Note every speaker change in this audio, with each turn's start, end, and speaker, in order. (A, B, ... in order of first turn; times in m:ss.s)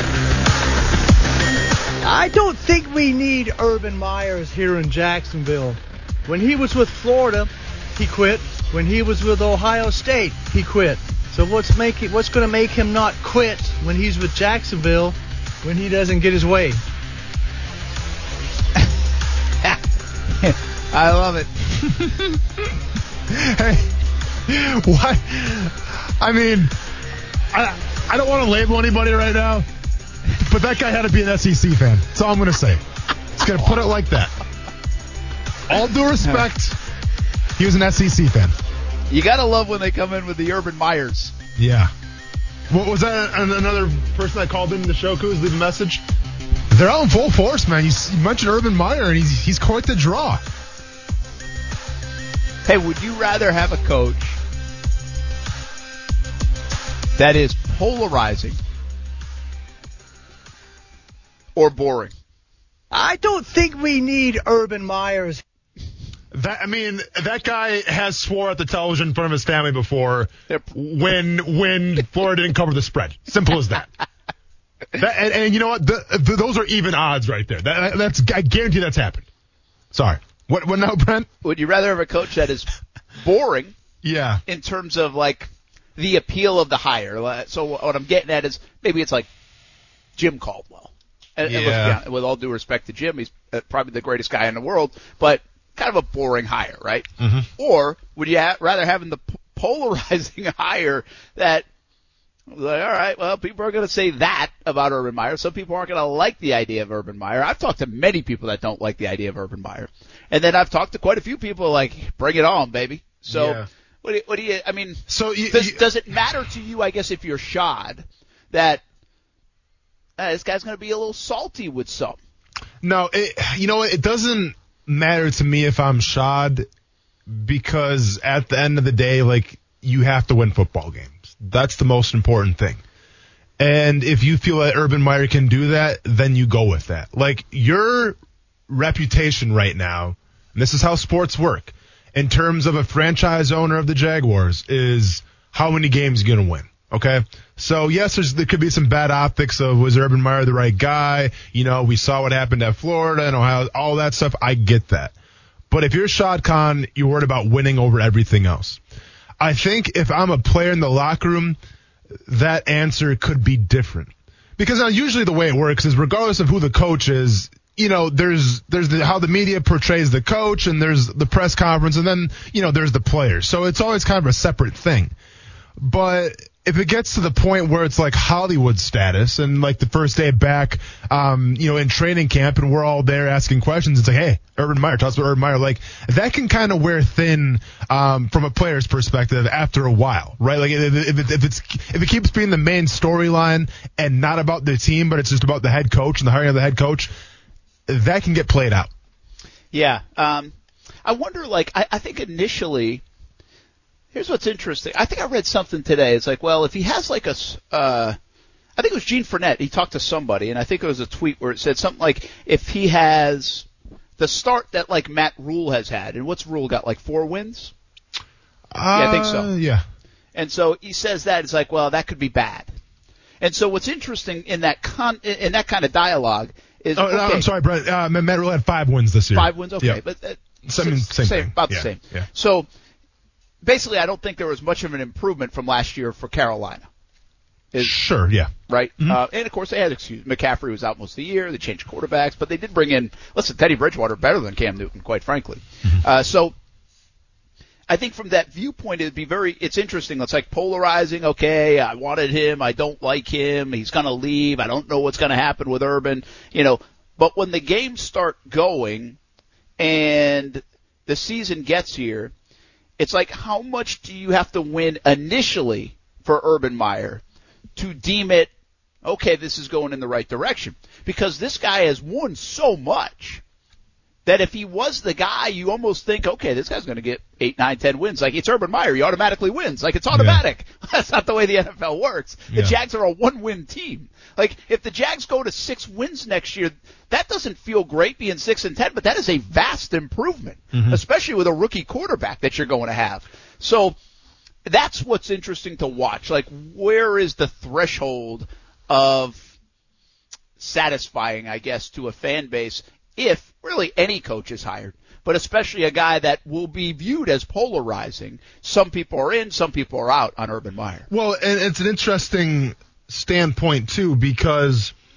0:02.0-0:16.8 A
0:20.4-0:21.5 B
0:23.3-0:23.9 C
0:24.4-0:26.7 C
0:27.5-0:29.6 C
0:30.3-0:32.8 C
0:33.4-0:34.3 C
0:35.7-0:36.8 C
0:37.6-0:38.5 C
0:39.1-0:41.3 B
0:41.6-0:41.9 C
0:42.7-0:46.0 C
0:46.7-0:50.4 C
0:52.6-0:54.4 B
0:57.2-0:58.6 B
1:01.6-1:02.1 B
1:02.9-1:05.4 A
1:06.3-1:13.9 C
1:15.0-1:19.2 C
1:19.9-1:21.3 C
1:21.4-1:22.7 B
1:23.2-1:23.7 B
1:24.0-1:24.4 C
1:24.4-1:29.3 B
1:30.2-1:41.6 B
1:31.5-1:32.0 C
1:37.2-1:37.5 C
1:42.5-1:58.8 B
1:53.3-1:53.6 C
1:55.1-1:55.8 C
2:00.2-2:02.2 B
2:02.8-2:06.7 C
2:07.3-2:12.8 C
2:13.6-2:18.2 C
2:18.7-2:35.1 C
2:35.7-2:38.8 C
2:39.4-2:41.6 C
2:42.3-2:55.1 C
2:55.8-3:17.1 C
3:17.9-3:18.9 C
3:19.7-3:20.5 B
3:21.0-3:23.0 B
3:24.1-3:28.2 B
3:28.8-3:33.7 B
3:34.2-3:37.7 B
3:38.7-3:39.8 C
3:38.9-3:39.5 B
3:40.3-3:42.7 B
3:43.4-3:47.5 B
3:46.9-3:50.0 C
3:49.3-3:52.7 B
3:50.6-3:52.3 C
3:53.6-3:56.9 B
3:57.8-3:59.2 C
3:58.7-4:06.5 B
4:07.9-4:19.2 B
4:19.8-4:22.3 B
4:23.0-4:27.2 B
4:27.8-4:28.5 B
4:29.0-4:33.4 B
4:34.2-4:54.0 B
4:40.1-4:40.4 C
4:50.7-4:51.0 C
4:54.6-4:59.5 B
5:00.6-5:11.1 B
5:11.1-5:14.9 C